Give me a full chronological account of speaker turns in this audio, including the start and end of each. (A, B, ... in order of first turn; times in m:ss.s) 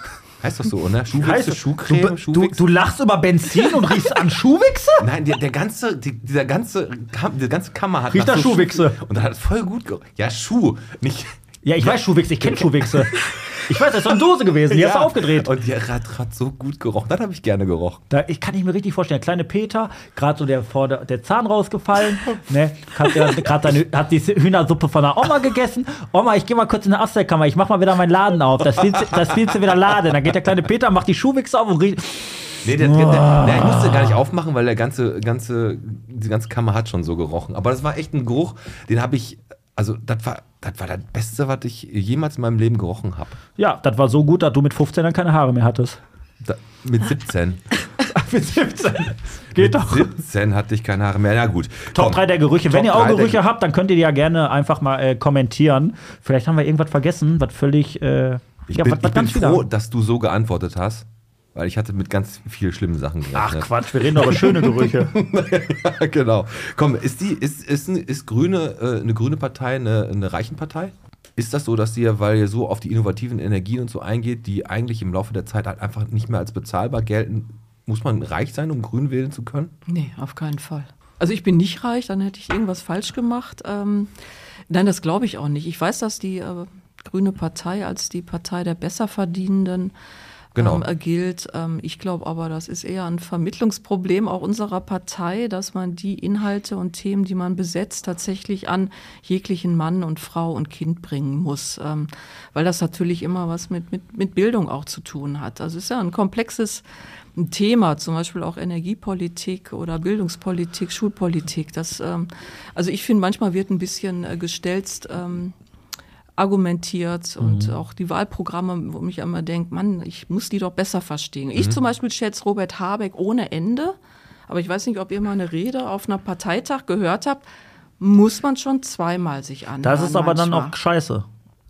0:00.4-0:02.6 A
0:01.1-0:05.1 B
0:05.0-0:13.3 A
0:08.1-0:09.0 B
0:11.6-0:15.5 B
0:14.7-0:18.0 A
0:18.1-0:34.2 B
0:28.9-0:29.2 A
0:32.6-0:43.4 A
0:43.6-0:46.0 B
0:46.4-0:47.6 A
0:48.0-0:50.2 B
0:49.6-0:53.4 A
0:51.9-0:59.6 B
0:58.7-1:19.7 A
1:03.3-1:05.2 B
1:19.9-1:24.1 C
1:24.7-1:29.9 C
1:30.6-1:30.8 A
1:30.6-1:46.8 C
1:47.4-1:55.6 C
1:56.4-2:04.0 C
1:57.4-1:57.8 B
2:04.5-2:07.5 C
2:08.0-2:10.7 C
2:09.8-2:11.3 B